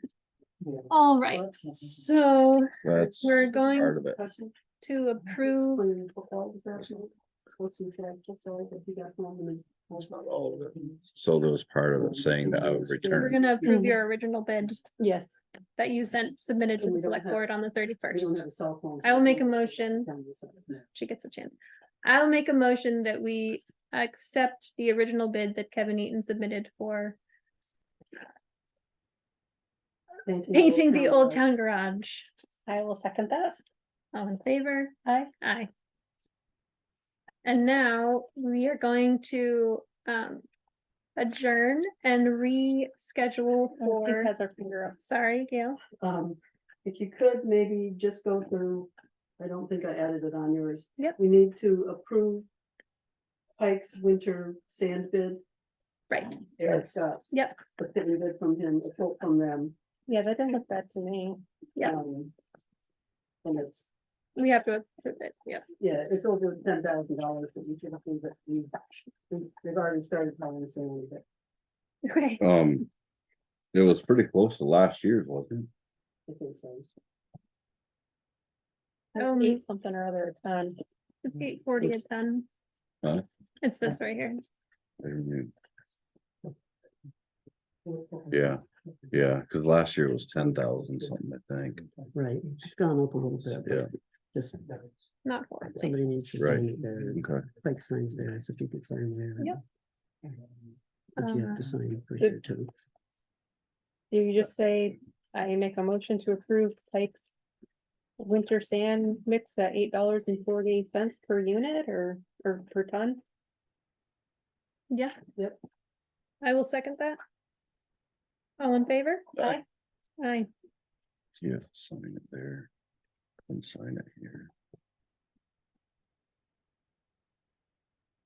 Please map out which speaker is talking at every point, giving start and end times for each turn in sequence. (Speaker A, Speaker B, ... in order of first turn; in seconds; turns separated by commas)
Speaker A: 0.6-2.1, Speaker B: 0.9-4.0, Speaker C: 2.8-4.2, Speaker A: 3.0-4.5, Speaker B: 4.8-5.8, Speaker A: 5.7-10.9, Speaker C: 10.2-13.4, Speaker A: 12.0-13.8, Speaker B: 13.1-14.9, Speaker D: 13.7-13.9, Speaker D: 15.0-15.3, Speaker B: 15.8-18.4, Speaker A: 16.8-17.4, Speaker A: 18.1-20.8, Speaker B: 19.0-20.1, Speaker B: 20.9-27.2, Speaker A: 30.2-31.4, Speaker B: 30.5-32.3, Speaker D: 32.7-33.6, Speaker B: 34.1-35.7, Speaker D: 35.0-35.3, Speaker B: 37.4-40.4, Speaker B: 41.1-44.3, Speaker D: 43.8-45.0, Speaker B: 45.0-45.8, Speaker A: 46.0-52.5, Speaker A: 53.6-55.4, Speaker B: 56.1-56.4, Speaker A: 56.6-59.7, Speaker B: 57.3-57.6, Speaker D: 60.1-61.4, Speaker A: 61.8-62.3, Speaker A: 63.4-63.9, Speaker B: 64.3-65.6, Speaker A: 65.8-68.7, Speaker A: 69.3-71.2, Speaker B: 72.0-72.4, Speaker C: 72.4-72.8, Speaker C: 73.7-75.7, Speaker A: 76.3-76.9, Speaker D: 79.1-80.8, Speaker B: 79.2-79.6, Speaker B: 81.2-82.5, Speaker B: 83.6-84.4, Speaker C: 85.0-85.5, Speaker A: 87.8-88.3, Speaker C: 88.3-91.9, Speaker A: 92.1-94.8, Speaker B: 95.2-96.0, Speaker A: 95.7-99.6, Speaker C: 96.3-97.4, Speaker A: 101.2-102.7, Speaker B: 101.2-101.6, Speaker D: 104.1-107.2, Speaker D: 108.2-113.2, Speaker B: 114.9-115.2, Speaker B: 116.4-117.2, Speaker B: 118.6-119.6, Speaker B: 120.2-120.5, Speaker C: 121.3-122.7, Speaker C: 123.5-124.5